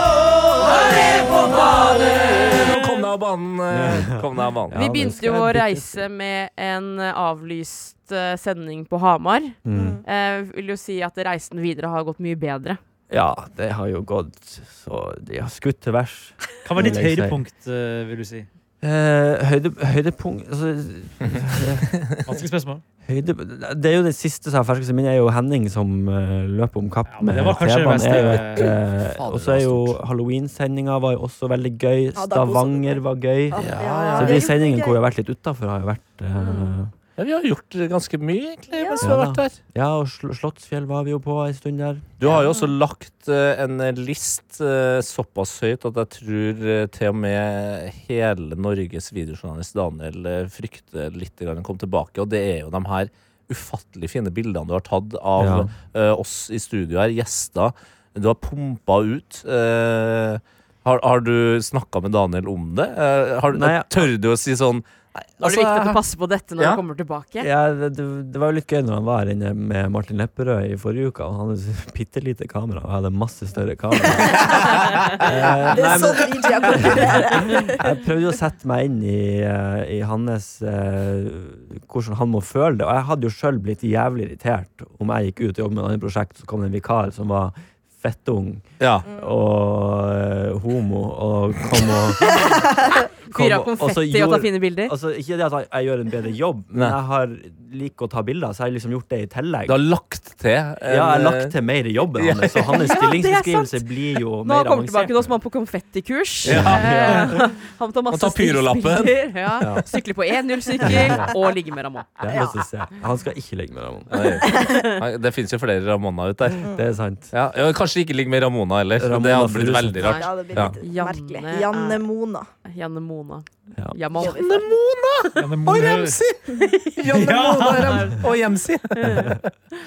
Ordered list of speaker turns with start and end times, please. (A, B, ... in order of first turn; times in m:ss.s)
0:00.8-0:04.9 A
0:02.7-0:03.0 B
0:03.7-0:06.0 C
0:04.7-0:12.8 D
0:09.6-0:10.0 C
0:09.7-0:10.0 E
0:13.1-0:17.4 C
0:16.6-0:18.5 B
0:18.8-0:21.9 C
0:22.3-0:22.8 B
0:23.0-0:36.9 C
0:27.1-0:28.6 B
0:29.0-0:30.0 A
0:32.2-0:35.0 E
0:33.6-0:34.6 A
0:36.4-0:36.7 E
0:37.2-0:39.6 A
0:38.7-0:39.1 E
0:39.0-0:42.1 C
0:42.2-1:06.0 A
0:42.2-0:42.7 E
0:55.4-0:55.7 C
1:03.5-1:04.1 C
1:05.4-1:07.5 D
1:07.4-1:32.6 C
1:14.1-1:14.6 E
1:15.7-1:17.9 E
1:28.8-1:29.0 A
1:32.3-1:33.0 E
1:33.3-1:34.9 D
1:33.3-1:39.8 C
1:39.6-1:41.5 A
1:40.9-1:45.4 C
1:42.1-1:42.8 A
1:42.7-1:43.8 D
1:44.4-1:52.4 D
1:46.4-1:47.3 A
1:46.4-1:47.5 C
1:48.1-1:49.8 A
1:49.6-1:49.8 C
1:50.8-1:51.3 C
1:50.8-1:51.3 E
1:52.2-1:54.4 C
1:52.3-1:52.6 E
1:54.1-1:56.7 A
1:54.5-1:54.8 E
1:54.6-1:54.9 D
1:56.7-1:57.3 C
1:57.3-2:00.8 A
1:59.0-2:00.1 C
2:00.0-2:02.5 E
2:00.0-2:00.3 D
2:00.8-2:02.0 D
2:02.6-2:04.5 D
2:04.2-2:04.7 E
2:04.2-2:09.4 A
2:05.4-2:06.2 B
2:07.1-2:08.0 B
2:09.0-2:09.4 D